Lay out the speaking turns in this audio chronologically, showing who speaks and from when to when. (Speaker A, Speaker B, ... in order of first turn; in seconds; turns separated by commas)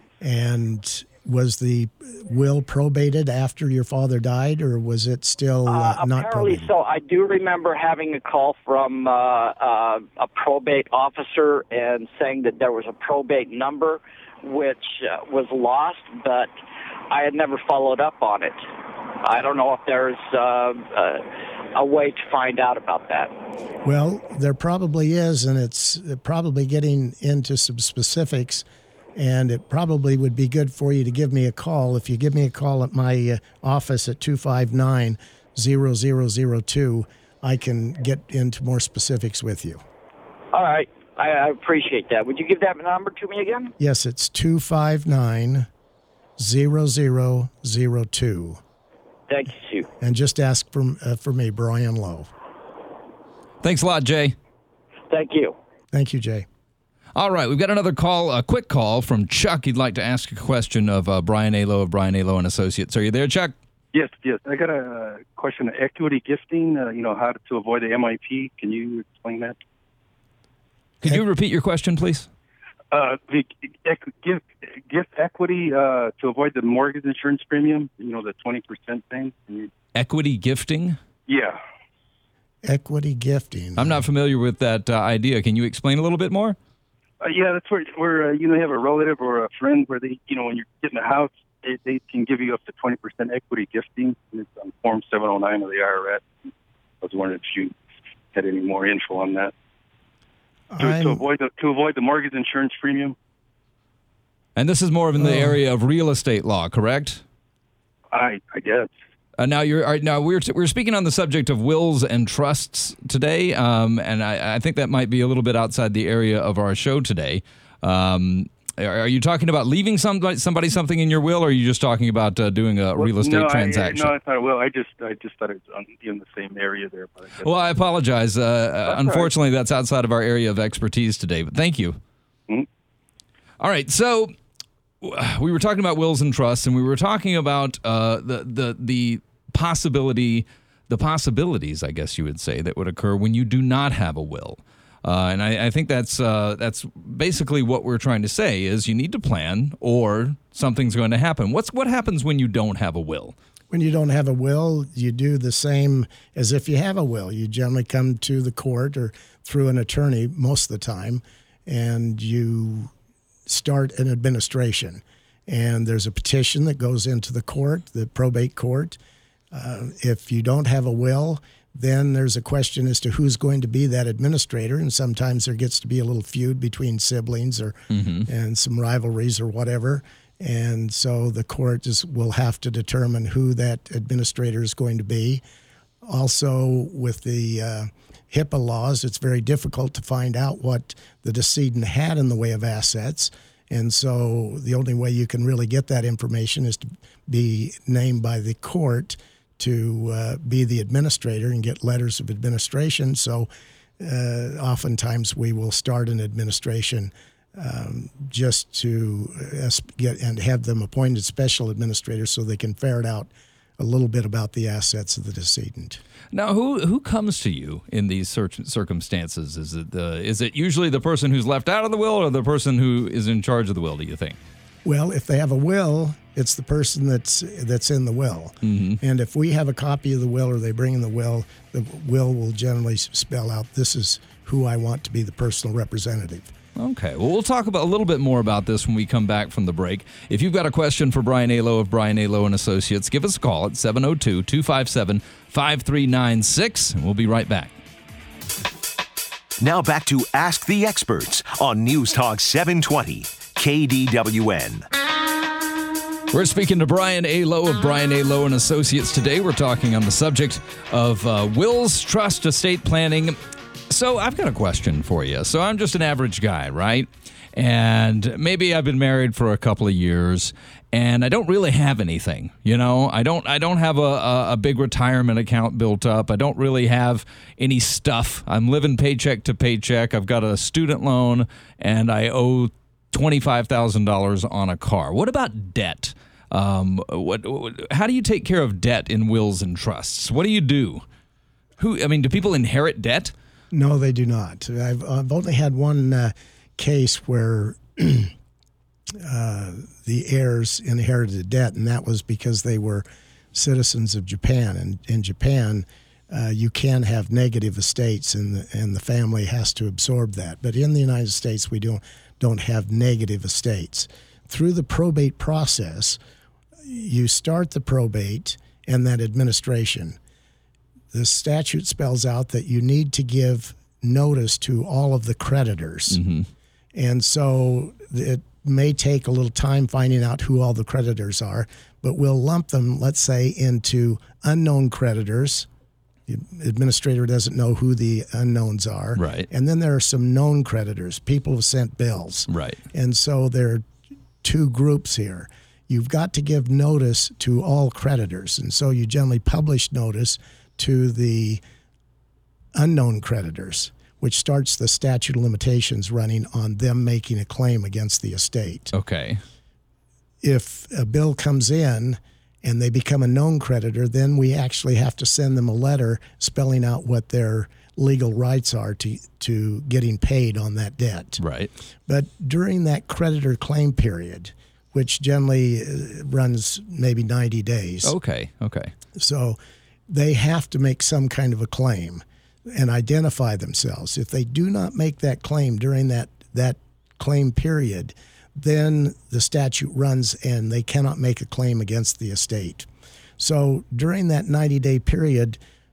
Speaker A: 0.2-6.7, Speaker B: 5.7-16.5, Speaker B: 17.1-18.6, Speaker B: 19.2-23.3, Speaker A: 23.8-28.6, Speaker A: 29.1-39.8, Speaker B: 40.5-43.7, Speaker A: 43.8-45.7, Speaker A: 46.4-48.6, Speaker B: 49.3-49.9, Speaker A: 50.0-52.3, Speaker C: 53.6-54.4, Speaker B: 55.1-55.5, Speaker A: 55.9-56.5, Speaker C: 57.1-63.5, Speaker D: 63.9-69.5, Speaker C: 71.0-72.3, Speaker D: 72.9-79.7, Speaker C: 79.9-81.0, Speaker D: 81.3-81.6, Speaker A: 82.6-84.0, Speaker C: 83.8-86.6, Speaker D: 87.2-96.3, Speaker D: 97.0-97.8, Speaker D: 98.3-99.5, Speaker A: 100.7-101.2, Speaker D: 100.8-103.1, Speaker C: 104.5-107.2, Speaker A: 105.2-105.5, Speaker D: 108.1-108.9, Speaker C: 109.4-124.1, Speaker D: 123.0-127.5, Speaker C: 127.4-132.0, Speaker D: 128.8-129.3, Speaker C: 133.6-134.3, Speaker C: 135.0-153.3, Speaker A: 153.7-162.9, Speaker A: 163.4-169.0, Speaker A: 169.5-185.4, Speaker C: 177.9-178.3, Speaker A: 186.0-203.5, Speaker A: 204.0-216.0, Speaker C: 216.3-224.4, Speaker A: 224.8-236.5, Speaker C: 228.6-229.0, Speaker C: 236.8-247.7, Speaker E: 249.6-254.9, Speaker C: 256.3-263.4, Speaker C: 263.9-291.0, Speaker C: 291.8-293.3, Speaker A: 293.7-298.3, Speaker A: 299.1-316.2, Speaker A: 316.8-320.2, Speaker A: 321.1-326.2, Speaker C: 326.1-326.5, Speaker A: 326.9-335.7, Speaker A: 336.3-343.9, Speaker C: 339.1-339.5, Speaker C: 342.5-342.8, Speaker A: 344.4-351.6, Speaker A: 352.7-358.9, Speaker C: 358.9-359.4, Speaker A: 360.4-371.4, Speaker C: 371.4-371.7, Speaker A: 372.1-378.1, Speaker C: 378.0-378.9, Speaker A: 379.1-392.9, Speaker A: 393.4-395.6